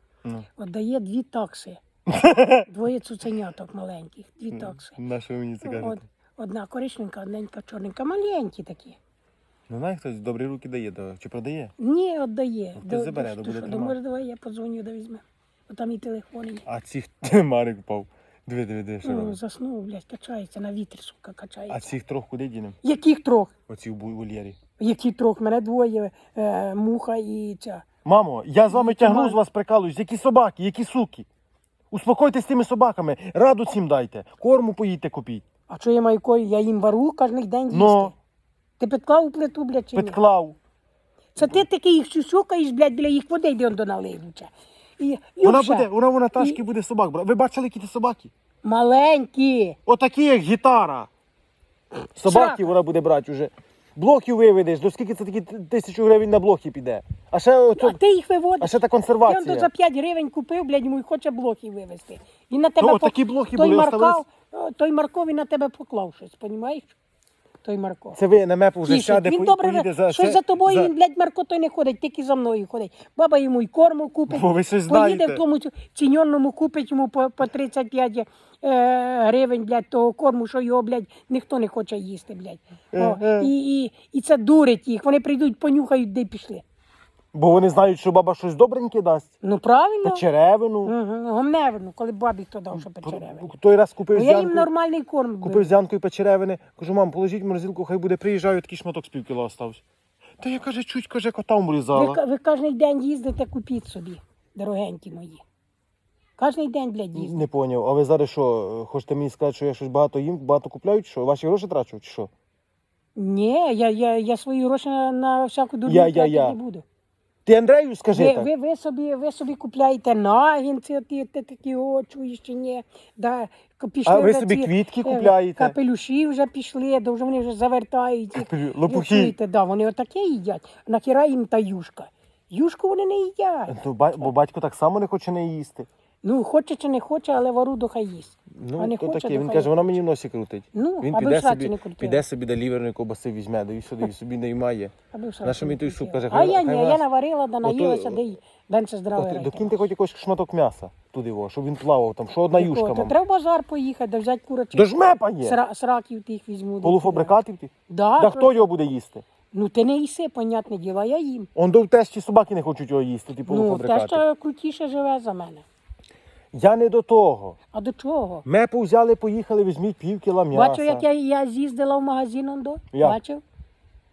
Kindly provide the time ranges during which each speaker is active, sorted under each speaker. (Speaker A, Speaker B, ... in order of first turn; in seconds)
Speaker A: 0.6-1.8, 2.6-5.0, 5.6-9.0, 11.8-16.6, 19.0-21.9, 22.8-23.5, 24.8-27.9, 28.7-29.4, 35.7-38.1, 38.8-40.2, 41.3-46.6, 48.6-49.8, 52.2-52.7, 57.8-66.9, 67.6-68.2, 68.9-86.6, 89.4-90.2, 90.8-93.5, 94.1-95.7, 101.9-105.4, 106.4-107.4, 113.2-116.8, 118.1-133.7, 136.2-139.9, 140.7-142.2, 145.1-149.8, 152.5-154.9, 155.4-157.3, 157.9-158.7, 159.5-161.5, 163.5-165.7, 167.7-168.4, 170.5-173.4
Speaker B: 2.1-2.7, 4.5-6.0, 9.7-11.7, 12.8-13.9, 16.6-19.4, 21.7-22.8, 23.7-24.6, 28.0-31.2, 31.9-35.4, 37.7-38.1, 39.9-40.5, 45.4-48.3, 49.9-51.1, 52.1-58.0, 58.6-59.7, 62.8-64.2, 68.1-70.9, 74.3-75.4, 82.9-83.5, 87.3-89.3, 90.0-90.9, 92.7-94.7, 95.4-99.8, 100.4-102.2, 107.1-112.3, 115.8-116.6, 117.5-118.5, 124.0-125.8, 128.3-129.3, 133.7-135.9, 138.6-147.0, 147.6-148.2, 149.2-153.1, 154.7-155.6, 156.8-159.2, 161.5-164.2, 166.5-167.6, 168.4-171.0, 172.9-173.2